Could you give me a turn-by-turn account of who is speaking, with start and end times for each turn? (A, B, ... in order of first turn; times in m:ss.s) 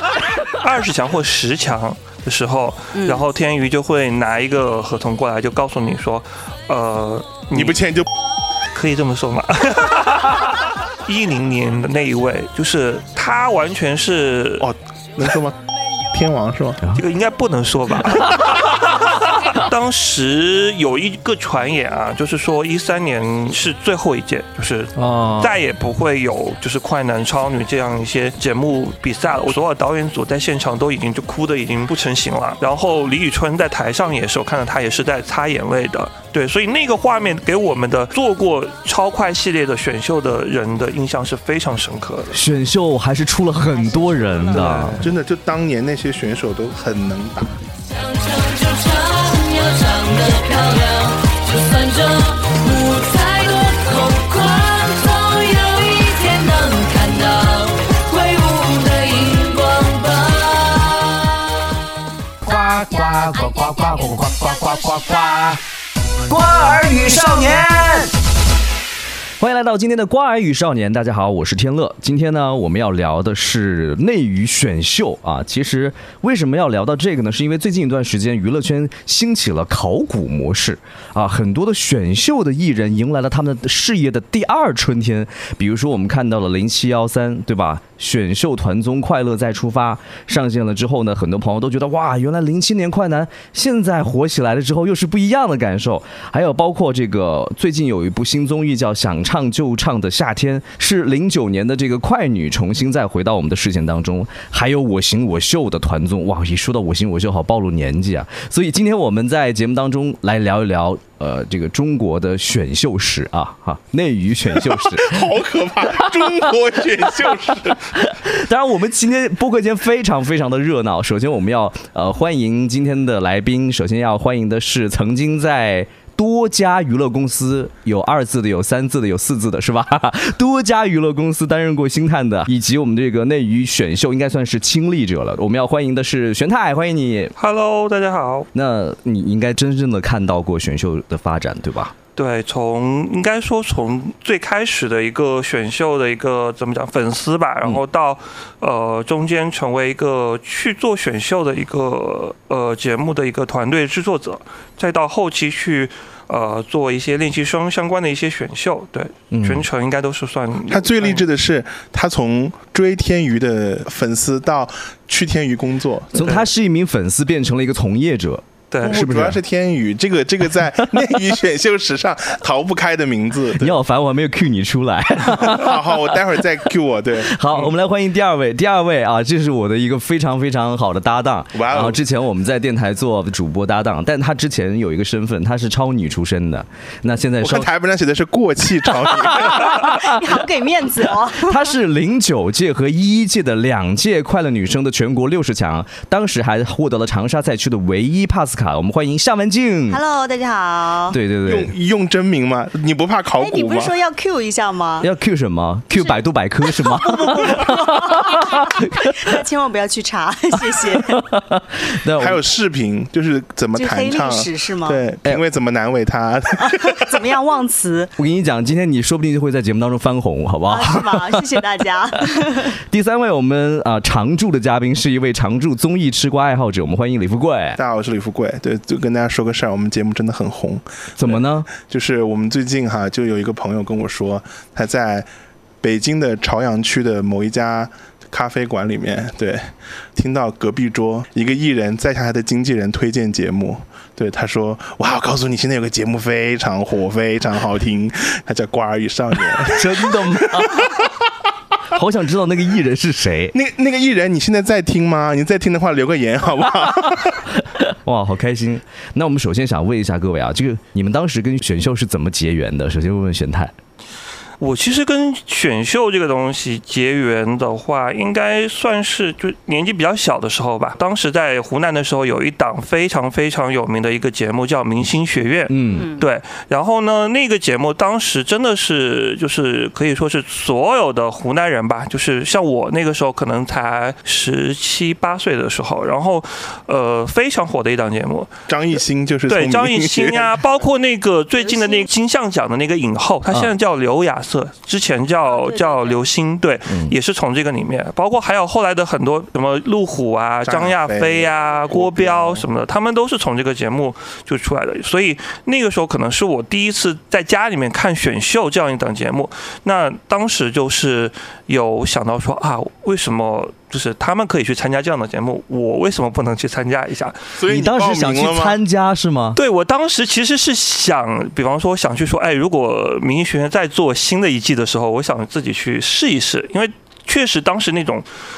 0:00.5-0:07.8 A
0:02.9-0:03.2 B
0:07.5-0:08.1 C
0:08.7-0:14.7 A
0:14.6-0:15.6 C
0:16.1-0:16.8 C
0:16.9-0:42.4 A
0:25.0-0:25.5 D
0:42.3-0:45.1 D
0:43.7-0:44.6 B
0:44.5-0:45.0 A
0:45.0-0:47.5 C
0:48.0-1:00.7 E
1:02.5-1:03.8 D
1:03.8-1:05.0 E
1:06.2-1:08.1 D
1:09.4-1:55.3 D
1:54.7-1:57.8 C
1:56.0-2:17.3 D
2:17.4-2:18.5 A
2:18.5-2:21.9 D
2:22.2-2:41.2 A
2:39.3-2:39.6 D
2:40.7-2:46.4 C
2:46.1-2:49.4 D
2:48.7-2:49.0 A
2:48.8-2:53.8 C
2:53.5-2:56.2 D
2:55.4-2:57.3 C
2:57.2-3:07.7 D
3:01.5-3:02.0 C
3:07.4-3:09.9 C
3:09.8-3:11.7 B
3:11.4-3:20.0 D
3:19.9-3:21.2 B
3:21.1-3:21.7 D
3:21.4-3:23.9 C
3:23.4-3:25.1 B
3:25.0-3:29.4 D
3:26.7-3:31.2 B
3:30.7-3:32.4 D
3:32.2-3:37.0 C
3:33.8-3:35.0 B
3:36.6-3:38.1 B
3:38.2-3:41.6 D
3:40.7-3:42.8 B
3:42.3-3:47.8 D
3:47.8-3:55.3 C
3:51.2-3:51.7 D
3:55.8-4:10.7 C
4:09.6-4:10.9 D
4:11.9-4:13.5 D
4:13.5-4:17.4 C
4:17.9-4:23.7 D
4:24.6-4:48.5 A
4:35.7-4:36.1 D
4:35.9-4:36.2 B
4:48.7-4:50.6 C
4:49.5-5:17.4 A
4:51.6-4:52.1 B
4:55.4-4:56.2 B
4:56.9-4:57.1 D
5:00.6-5:02.6 C
5:17.6-5:18.8 C
5:17.7-5:19.6 D
5:19.5-5:28.2 A